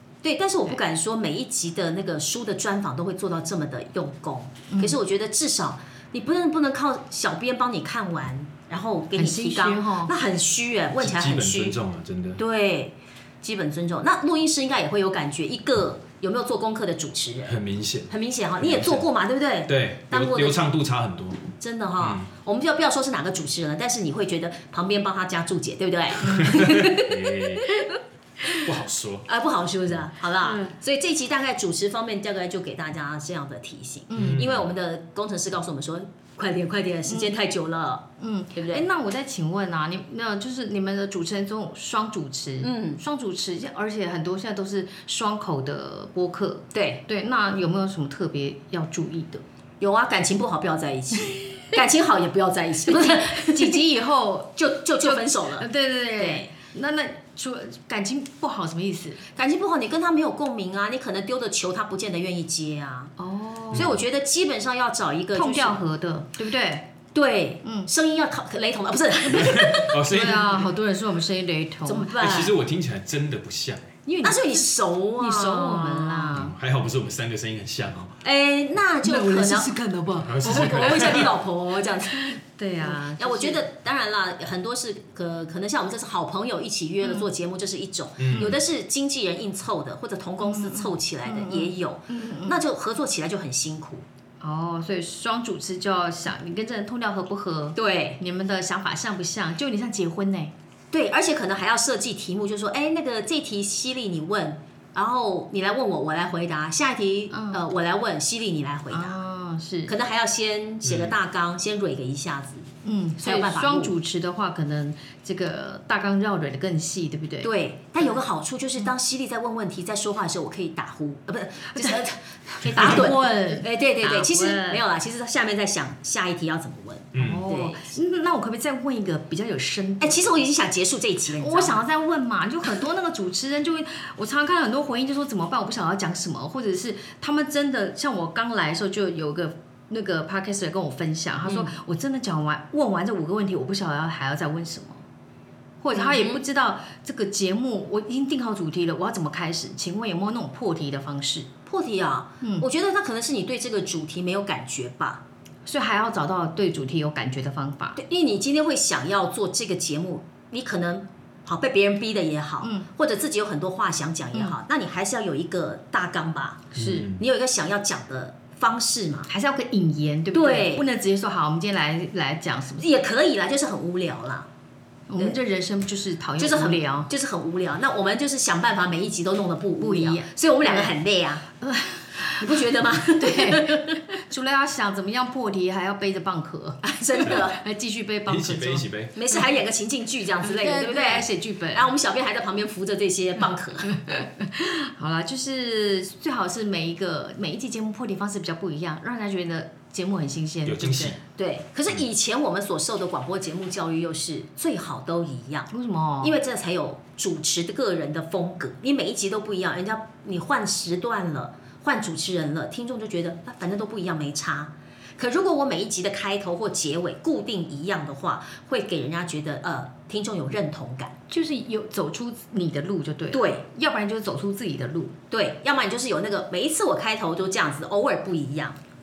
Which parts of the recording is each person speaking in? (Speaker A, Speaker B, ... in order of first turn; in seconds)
Speaker A: 0.2-11.8, 12.4-20.6, 21.6-27.1, 29.3-38.8, 42.6-43.0, 46.7-47.0, 49.8-53.8, 54.6-55.7, 56.2-56.5, 59.3-63.1, 63.7-65.8, 67.1-70.0, 71.8-72.5, 74.2-76.4, 78.2-79.8, 80.3-94.0, 97.8-98.2, 100.9-109.2, 109.9-113.9, 117.4-127.9, 130.0-131.8, 141.4-141.7, 145.9-146.4, 151.7-155.2, 157.9-169.3, 170.3-170.8, 172.8-174.5, 176.4-181.4, 182.3-184.0, 186.8-187.6, 189.1-193.9, 201.3-205.7, 206.2-221.1, 223.3-223.6, 225.3-228.8
Speaker B: 4.7-5.0, 9.1-10.1, 27.7-28.6, 30.4-30.7, 34.1-34.4, 38.2-49.4, 52.9-59.2, 63.2-63.9, 65.3-66.9, 67.6-67.9, 70.0-72.1, 74.0-74.6, 75.2-76.5, 79.0-81.3, 82.1-83.6, 87.0-87.3, 90.4-92.6, 94.4-100.5, 107.3-107.6, 108.9-109.9, 112.8-118.2, 121.7-122.0, 122.6-124.8, 127.2-130.3, 131.4-145.0, 145.8-151.5, 152.4-152.7, 155.7-158.0, 162.6-162.9, 166.7-167.1, 169.3-172.9, 175.1-177.1, 179.8-180.9, 181.6-189.5, 190.4-191.9, 193.9-201.2, 205.7-206.3, 221.3-225.1
Speaker C: 11.0-12.4, 17.4-19.1, 19.7-21.5, 22.0-22.3, 26.3-27.7, 28.6-29.3, 34.1-34.7, 63.7-64.0, 69.3-70.7, 72.1-73.9, 76.3-78.2, 80.2-81.3, 88.2-88.6, 110.8-111.2, 127.1-127.4, 166.7-167.2, 188.3-189.1, 200.6-201.2